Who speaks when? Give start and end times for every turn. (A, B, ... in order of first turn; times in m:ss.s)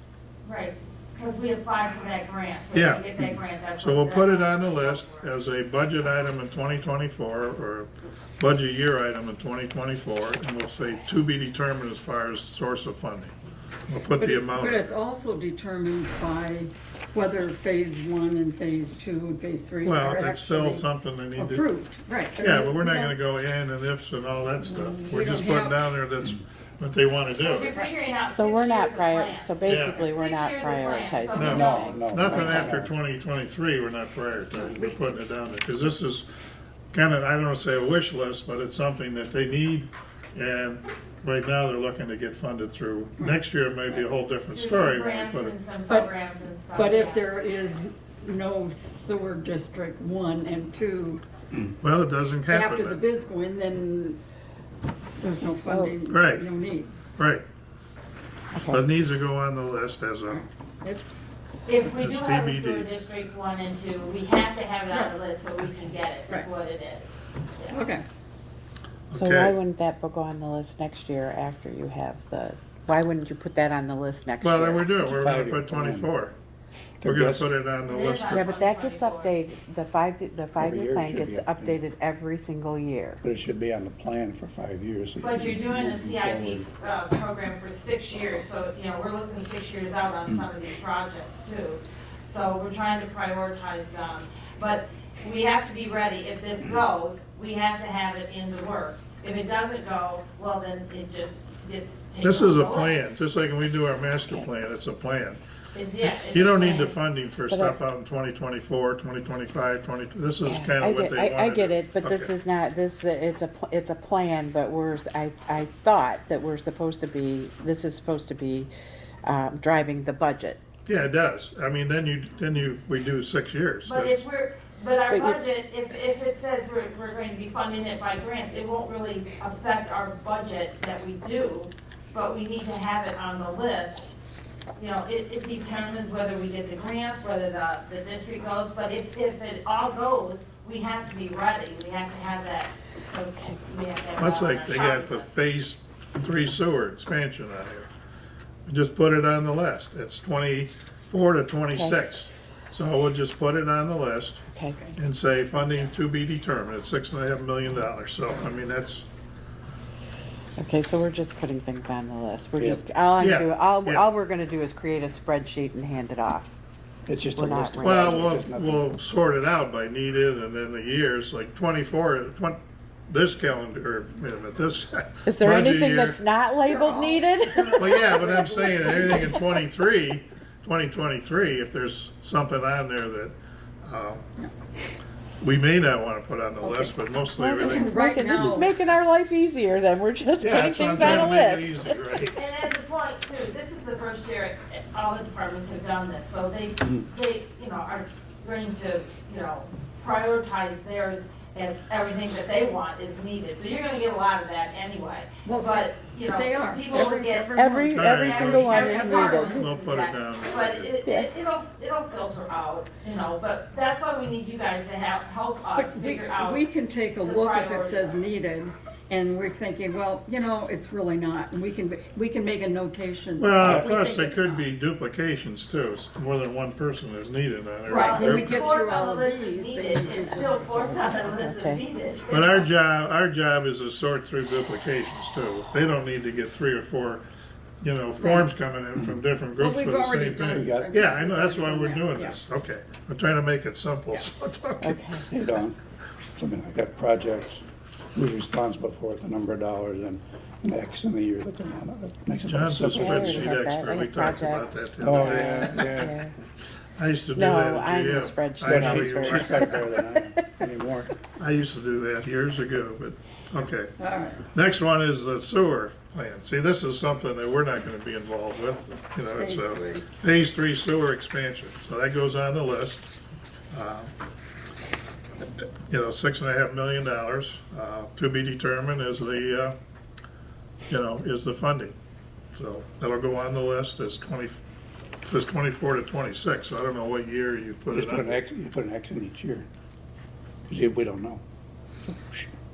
0:00.4-0:05.3 A
0:02.7-0:03.3 B
0:03.8-0:13.3 B
0:13.9-0:14.9 B
0:14.2-0:23.2 C
0:19.8-0:21.7 B
0:22.4-0:27.7 B
0:24.6-0:25.9 C
0:27.4-0:32.2 A
0:28.3-0:32.7 D
0:29.7-0:30.1 B
0:31.4-0:36.3 B
0:31.5-0:32.9 E
0:34.6-0:35.0 C
0:36.9-0:45.5 B
0:44.5-0:47.3 A
0:46.7-0:51.2 C
0:51.8-0:53.0 B
0:52.5-0:54.2 C
0:55.2-0:56.9 C
0:55.4-0:56.0 D
0:56.1-0:56.5 B
0:57.2-0:57.4 B
0:58.5-0:58.8 D
0:58.7-1:00.4 B
1:00.3-1:01.3 C
1:01.7-1:07.8 A
1:01.9-1:02.9 B
1:07.7-1:08.0 C
1:09.1-1:09.6 B
1:09.2-1:14.9 D
1:14.4-1:16.3 B
1:15.0-1:16.1 E
1:17.0-1:17.5 E
1:17.0-1:18.4 B
1:17.9-1:19.4 A
1:18.3-1:23.2 D
1:20.6-1:21.8 E
1:23.2-1:26.7 E
1:25.2-1:43.1 A
1:42.2-1:45.4 B
1:45.8-1:47.0 A
1:46.1-1:52.3 B
1:47.5-1:47.8 D
1:50.4-1:58.7 D
1:59.2-2:00.6 D
2:00.9-2:04.2 B
2:03.8-2:14.1 A
2:05.1-2:05.4 D
2:14.8-2:25.3 A
2:24.2-2:27.9 B
2:28.7-2:34.4 B
2:31.7-2:32.0 D
2:34.5-2:34.8 D
2:35.0-2:39.1 B
2:40.6-2:46.5 D
2:42.6-2:42.8 E
2:43.2-2:44.1 B
2:47.1-2:48.8 E
2:47.4-2:48.3 D
2:47.8-2:56.2 B
2:55.3-2:58.4 D
2:56.6-2:59.4 C
2:57.7-3:04.2 B
3:05.4-3:07.9 B
3:06.6-3:12.0 D
3:07.6-3:08.8 C
3:10.4-3:12.4 B
3:12.4-3:36.6 A
3:25.4-3:29.7 C
3:27.5-3:29.6 D
3:27.9-3:30.9 B
3:35.7-3:44.7 C
3:37.2-3:38.2 A
3:43.4-3:48.7 B
3:43.6-3:43.9 E
3:47.9-3:51.2 C
3:47.9-3:52.7 A
3:51.4-3:51.8 D
3:52.3-3:57.2 B
3:57.8-4:05.0 B
3:58.2-3:58.5 C
3:59.6-4:02.4 C
4:00.5-4:01.0 E
4:04.8-4:05.2 D
4:05.3-4:05.8 E
4:06.4-4:07.6 E
4:08.2-4:13.6 E
4:12.5-4:15.9 B
4:12.9-4:16.3 D
4:15.0-4:16.2 E
4:17.0-4:19.8 B
4:17.4-4:20.0 D
4:18.7-4:21.1 E
4:21.4-4:23.9 B
4:24.0-4:24.4 C
4:24.5-4:33.1 B
4:29.4-4:30.1 C
4:33.7-4:34.1 B
4:35.9-4:39.8 B
4:40.9-4:42.0 B
4:42.5-4:44.6 B
4:45.2-4:48.4 B
4:47.9-4:49.7 E
4:50.7-4:51.4 E